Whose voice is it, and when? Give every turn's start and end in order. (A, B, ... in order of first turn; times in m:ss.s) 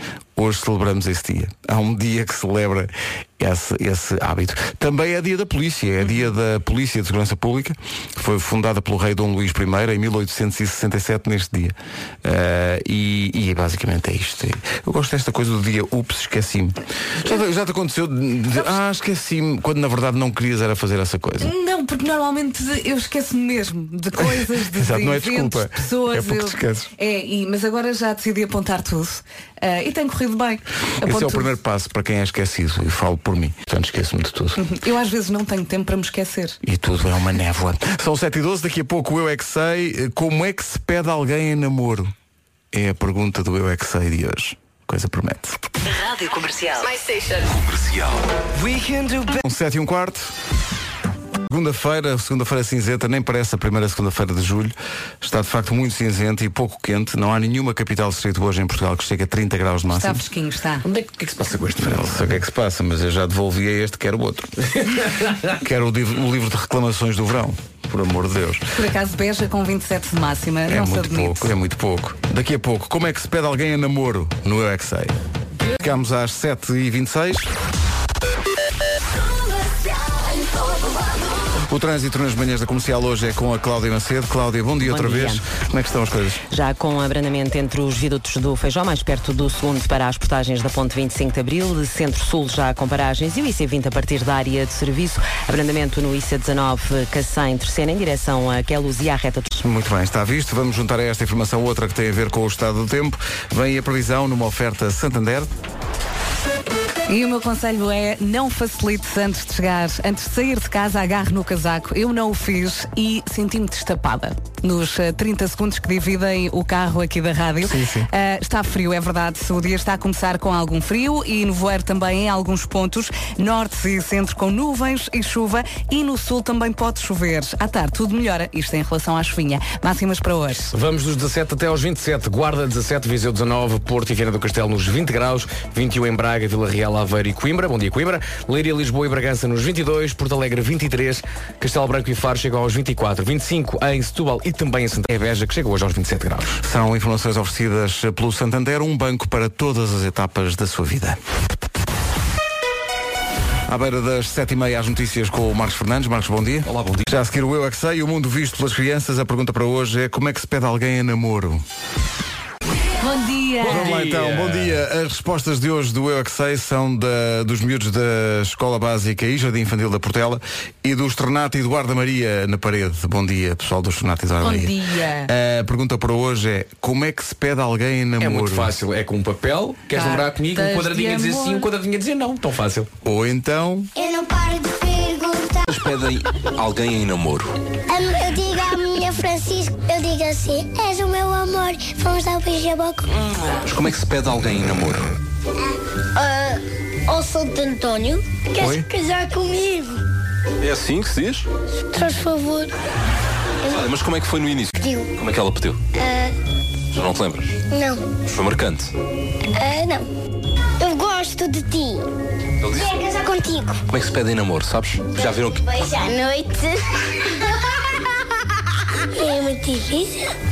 0:00.4-0:21.5 A
0:21.4-0:31.5 B
0:24.2-0:26.9 A
0:31.0-0:34.6 A
0:34.6-0:36.6 B
0:36.6-0:42.1 A
0:42.7-0:45.6 A
0:47.4-0:48.2 C
0:49.4-0:50.3 A
0:51.5-1:00.2 A
0:59.9-1:00.9 B
1:00.8-1:02.4 D
1:01.8-1:04.6 A
1:04.9-1:05.4 D
1:05.6-1:08.6 A
1:08.7-1:11.5 B
1:10.7-1:15.2 A
1:15.8-1:17.5 A
1:21.6-1:26.4 A
1:24.8-1:25.4 E
1:26.5-1:39.5 E
1:39.6-1:45.5 A
1:47.1-2:10.7 B
1:57.6-1:58.1 A
2:10.7-2:26.6 D
2:26.6-2:31.2 A
2:33.7-2:41.6 A
2:36.7-2:37.0 D
2:43.0-2:43.8 B
2:43.6-2:44.8 D
2:43.6-2:58.8 A
2:54.4-2:55.3 B
2:58.2-3:02.9 D
2:59.9-3:01.7 B
3:03.0-3:03.9 A
3:04.0-3:05.9 F
3:05.7-3:07.5 C
3:07.9-3:13.3 F
3:13.6-3:15.2 C
3:16.2-3:20.0 F
3:18.6-3:18.9 A
3:20.6-3:21.5 C
3:21.9-3:22.7 F
3:23.7-3:25.8 C
3:24.8-3:25.1 F
3:26.0-3:26.3 F
3:26.9-3:27.6 C
3:27.7-3:28.1 F
3:28.3-3:28.9 C
3:29.5-3:30.1 F
3:30.8-3:32.1 F
3:32.6-3:32.9 C
3:32.7-3:33.8 F
3:33.9-3:35.7 C
3:35.2-3:38.0 F
3:39.1-3:40.3 F